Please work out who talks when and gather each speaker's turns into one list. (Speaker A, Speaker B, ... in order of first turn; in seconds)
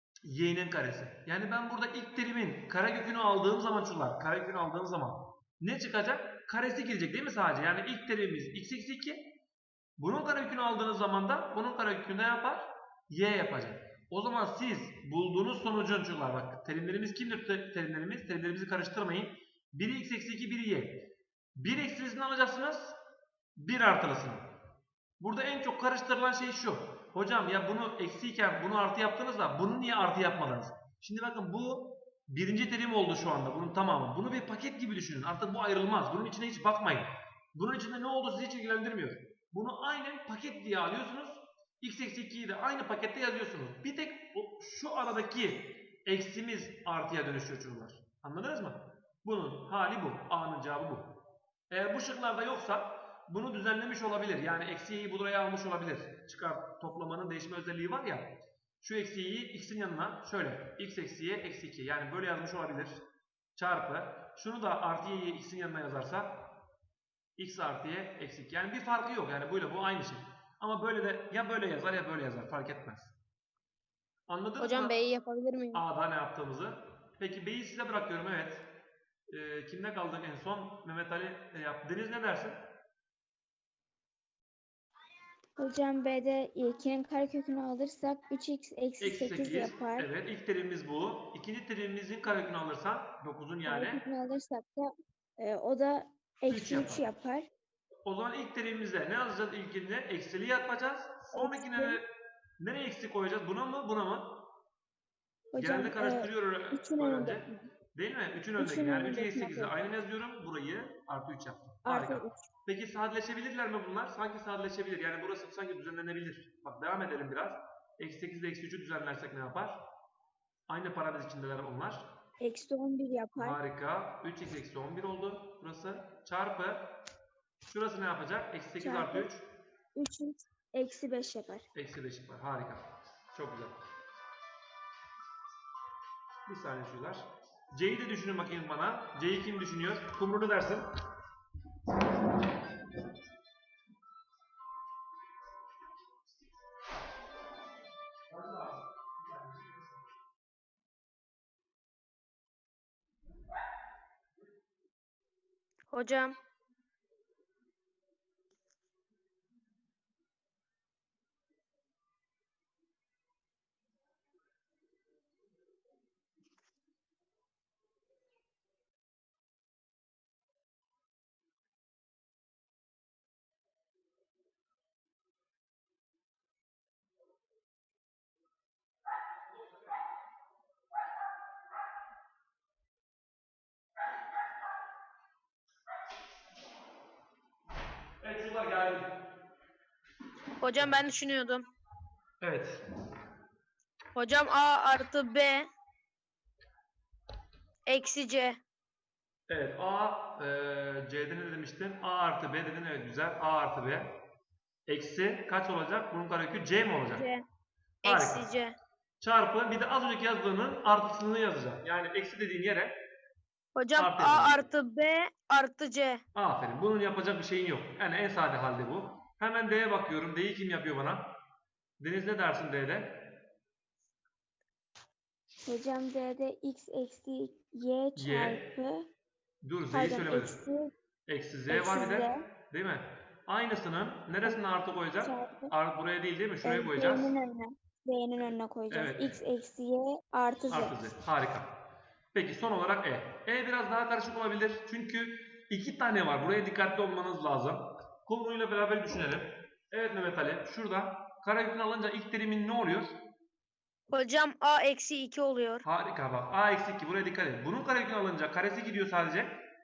Speaker A: 0.2-9.2, 10.0-21.0, 21.6-23.0, 23.6-24.5, 25.2-51.2, 51.7-63.0, 63.5-66.5, 67.4-73.1, 74.3-74.9, 75.7-78.7, 79.3-82.7, 89.0-94.0, 96.5-97.1, 98.0-102.1, 102.6-104.4, 105.6-119.8, 120.7-122.1, 123.4-127.0, 127.7-129.5, 131.7-133.8, 136.4-140.9, 148.3-148.8, 188.2-189.1, 192.4-192.8, 199.5-204.1, 204.9-207.3, 208.1-208.5, 209.2-212.9, 213.9-214.6, 216.3-221.3, 222.0-223.3, 228.2-228.6, 229.6-230.6, 231.3-237.3, 238.9-239.4, 240.7-253.2, 255.8-259.6
Speaker B: 74.6-75.8, 155.9-156.4, 190.6-191.7, 194.1-195.7, 197.9-198.6, 207.2-207.4, 208.0-208.7, 213.8-216.2, 254.1-255.8
Speaker C: 85.6-90.1, 93.7-97.5, 101.3-102.0, 105.5-107.7, 108.6-109.8, 111.8-112.4, 122.4-123.6, 128.8-129.3, 129.9-131.7, 225.6-229.1, 229.9-230.9, 231.7-232.4, 235.2-235.7, 236.6-241.0